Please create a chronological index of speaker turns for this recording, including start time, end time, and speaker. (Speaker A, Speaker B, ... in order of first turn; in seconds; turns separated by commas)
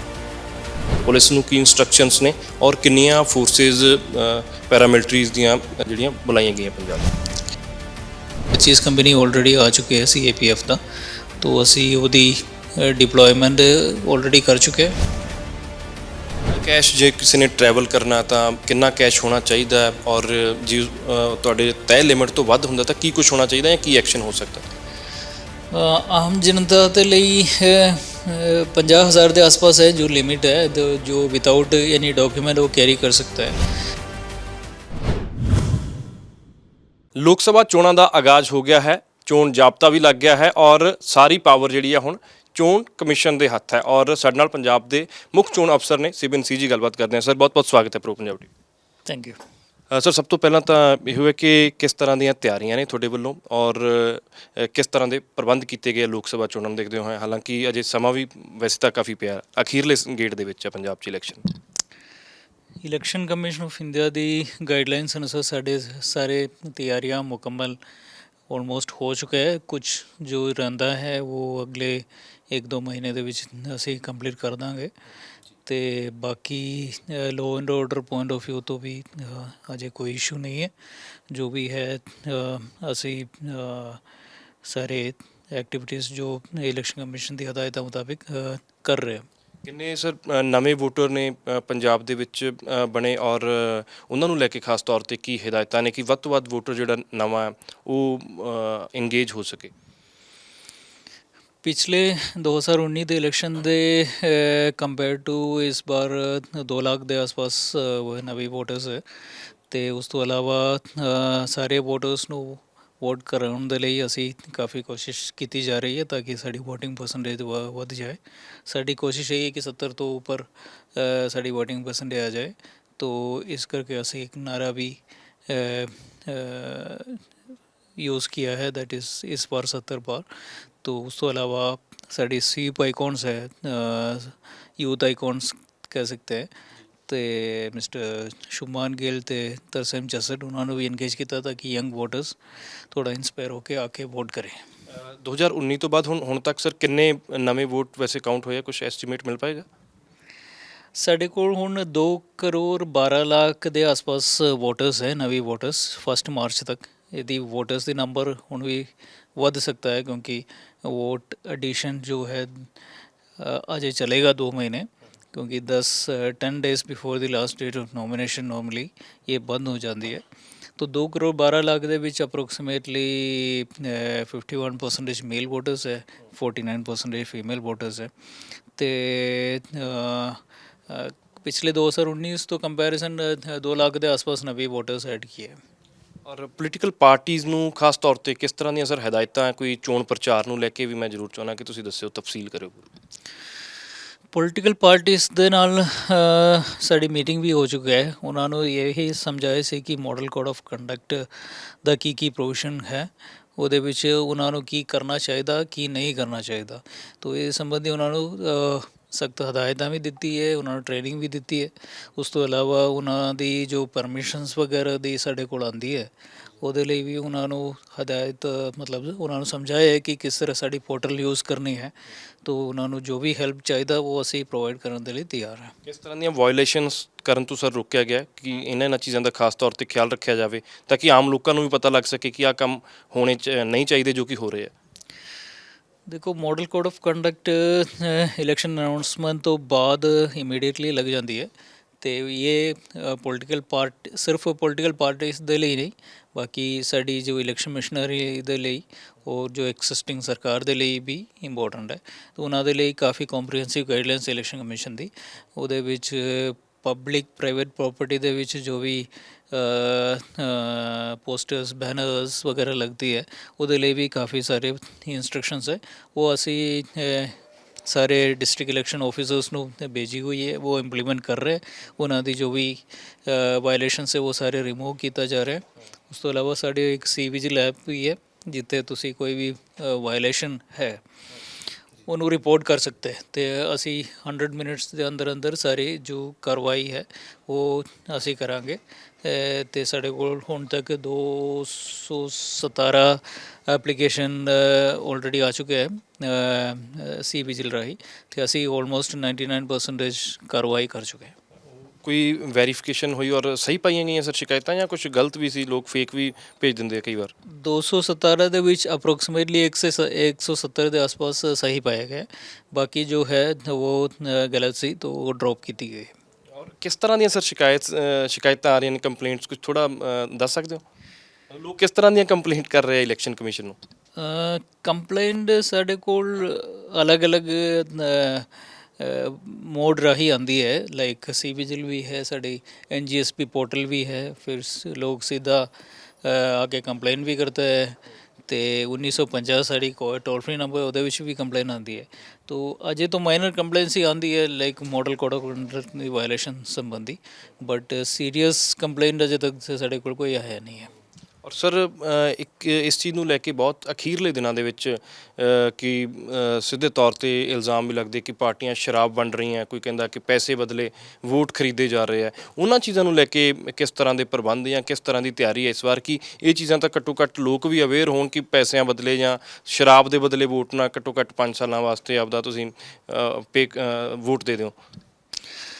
Speaker A: 1.0-7.1, Speaker B: 8.5-10.8, Speaker B: 11.4-14.9, Speaker A: 16.5-24.7, Speaker B: 25.7-33.6, Speaker A: 37.1-48.5, Speaker B: 49.0-49.4, Speaker A: 49.9-61.4, Speaker B: 62.8-67.8, Speaker B: 68.5-74.9, Speaker B: 75.7-80.7, Speaker B: 81.3-84.0, Speaker B: 84.6-89.2, Speaker A: 89.6-99.7, Speaker B: 101.6-109.0, Speaker B: 109.7-127.2, Speaker B: 128.0-130.3, Speaker B: 130.8-136.5, Speaker B: 137.1-142.4, Speaker B: 142.9-144.6, Speaker A: 145.0-149.7, Speaker B: 150.9-162.7, Speaker B: 163.4-170.2, Speaker B: 170.8-178.1, Speaker B: 178.8-185.6, Speaker A: 186.2-192.9, Speaker B: 194.3-225.7, Speaker A: 225.8-234.7, Speaker B: 236.1-241.5, Speaker B: 242.0-281.0, Speaker B: 282.1-301.3, Speaker A: 302.0-307.3, Speaker B: 307.6-316.1, Speaker A: 316.6-320.8, Speaker A: 321.5-323.8, Speaker B: 324.2-335.7, Speaker B: 336.2-350.9, Speaker A: 351.4-374.8